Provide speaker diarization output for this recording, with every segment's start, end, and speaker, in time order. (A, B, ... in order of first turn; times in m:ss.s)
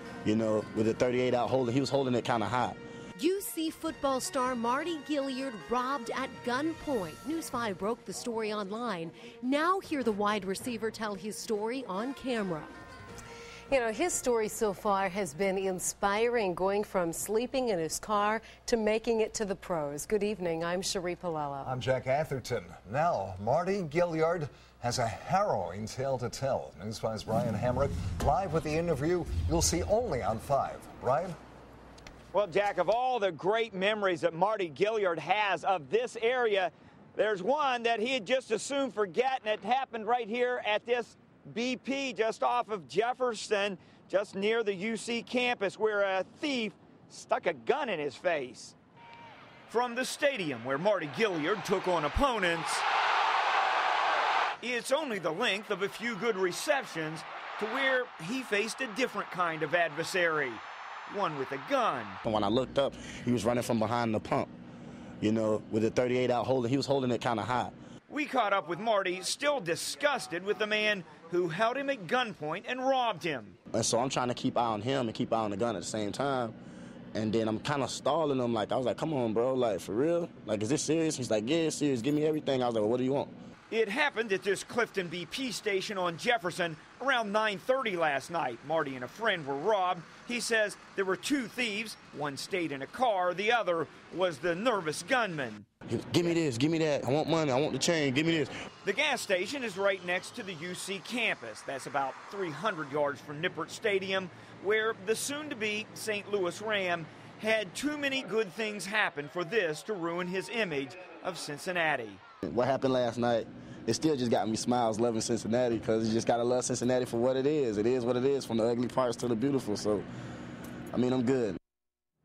0:00.2-0:02.8 A
0:03.2-0:12.7 B
0:13.7-0:21.8 B
0:21.6-0:31.4 C
0:32.3-0:48.8 D
0:49.7-0:52.8 D
0:54.6-1:02.2 D
1:02.2-1:04.5 A
1:05.2-1:07.7 A
1:08.1-1:13.6 D
1:13.7-1:16.6 A
1:17.1-1:23.3 A
1:23.7-1:35.7 D
1:35.9-1:38.5 A
1:38.8-1:52.2 D
1:52.4-2:00.1 A
2:00.9-2:01.6 A